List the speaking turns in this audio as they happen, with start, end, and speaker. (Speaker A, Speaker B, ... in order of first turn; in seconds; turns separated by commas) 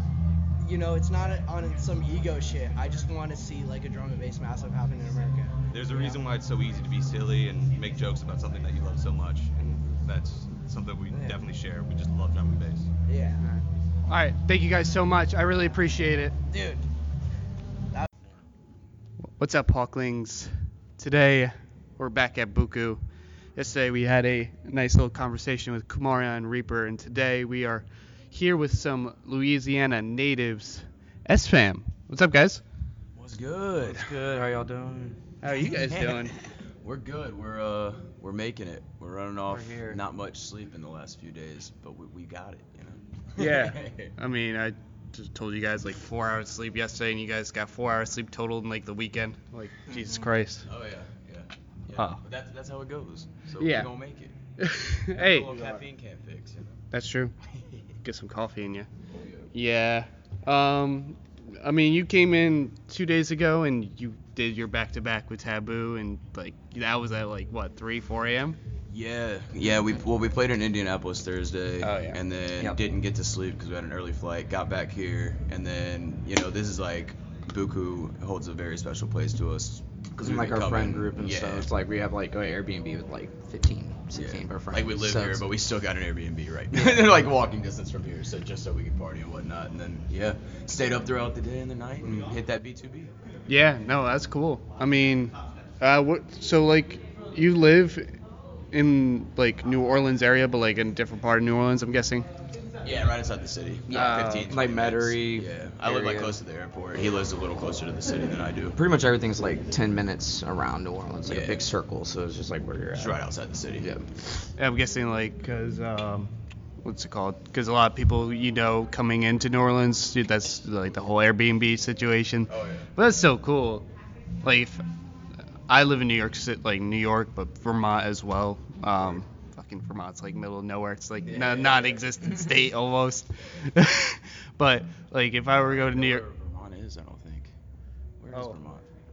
Speaker A: 0.6-6.2, Speaker B: 5.7-12.9, Speaker A: 13.1-13.4, Speaker C: 13.4-16.4, Speaker A: 16.5-16.9, Speaker C: 19.4-23.0, Speaker C: 23.6-32.6, Speaker D: 33.1-34.1, Speaker E: 33.8-35.2, Speaker C: 35.4-36.3, Speaker D: 35.9-44.1, Speaker E: 39.5-40.0, Speaker C: 43.4-50.7, Speaker D: 50.6-54.4, Speaker C: 53.6-53.9, Speaker C: 54.6-55.8, Speaker D: 55.1-56.8, Speaker C: 56.9-57.3, Speaker D: 57.6-57.8, Speaker C: 58.0-58.9, Speaker D: 59.1-59.5, Speaker C: 59.5-68.6, Speaker D: 68.9-81.7, Speaker C: 71.8-72.2, Speaker E: 80.2-85.5, Speaker D: 84.1-93.1, Speaker E: 86.7-87.2, Speaker C: 93.5-98.2, Speaker C: 98.7-102.3, Speaker D: 102.8-108.8, Speaker E: 103.9-106.4, Speaker C: 103.9-104.5, Speaker E: 108.7-113.2, Speaker D: 111.2-111.7, Speaker D: 113.0-114.0, Speaker E: 113.8-114.0, Speaker C: 114.6-116.3, Speaker C: 116.8-123.9, Speaker D: 122.5-122.9, Speaker C: 124.4-124.8, Speaker C: 125.7-136.2, Speaker D: 131.2-132.2, Speaker D: 135.5-137.5, Speaker D: 138.2-138.9